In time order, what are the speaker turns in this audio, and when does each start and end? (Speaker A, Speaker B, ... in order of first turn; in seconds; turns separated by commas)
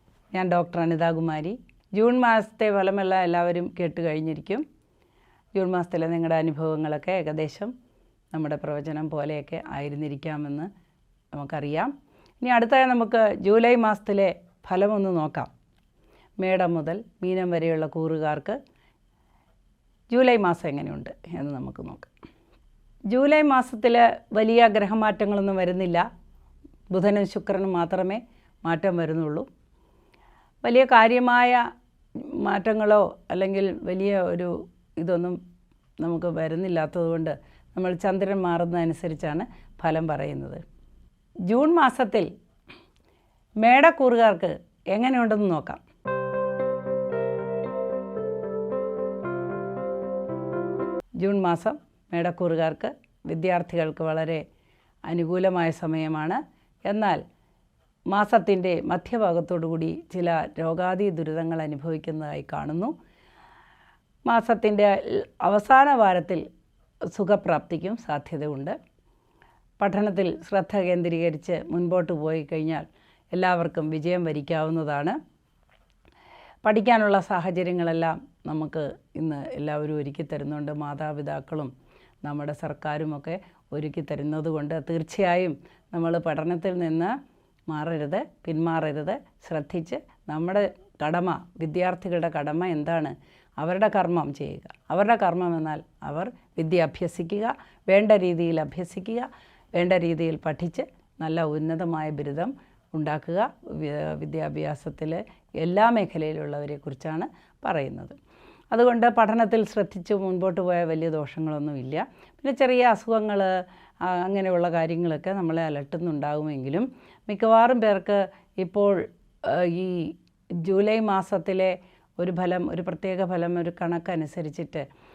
Speaker A: 0.3-4.6, Speaker A: 5.6-7.7, Speaker A: 8.3-10.7, Speaker A: 11.3-15.5, Speaker A: 16.4-18.6, Speaker A: 20.1-22.1, Speaker A: 23.1-26.1, Speaker A: 26.9-29.5, Speaker A: 30.6-31.7, Speaker A: 32.2-35.4, Speaker A: 36.0-40.6, Speaker A: 41.5-42.3, Speaker A: 43.6-45.8, Speaker A: 51.2-54.4, Speaker A: 55.1-57.2, Speaker A: 58.1-62.9, Speaker A: 64.3-66.4, Speaker A: 67.1-68.8, Speaker A: 69.8-75.2, Speaker A: 76.6-81.7, Speaker A: 82.2-87.2, Speaker A: 87.7-108.2, Speaker A: 108.7-124.9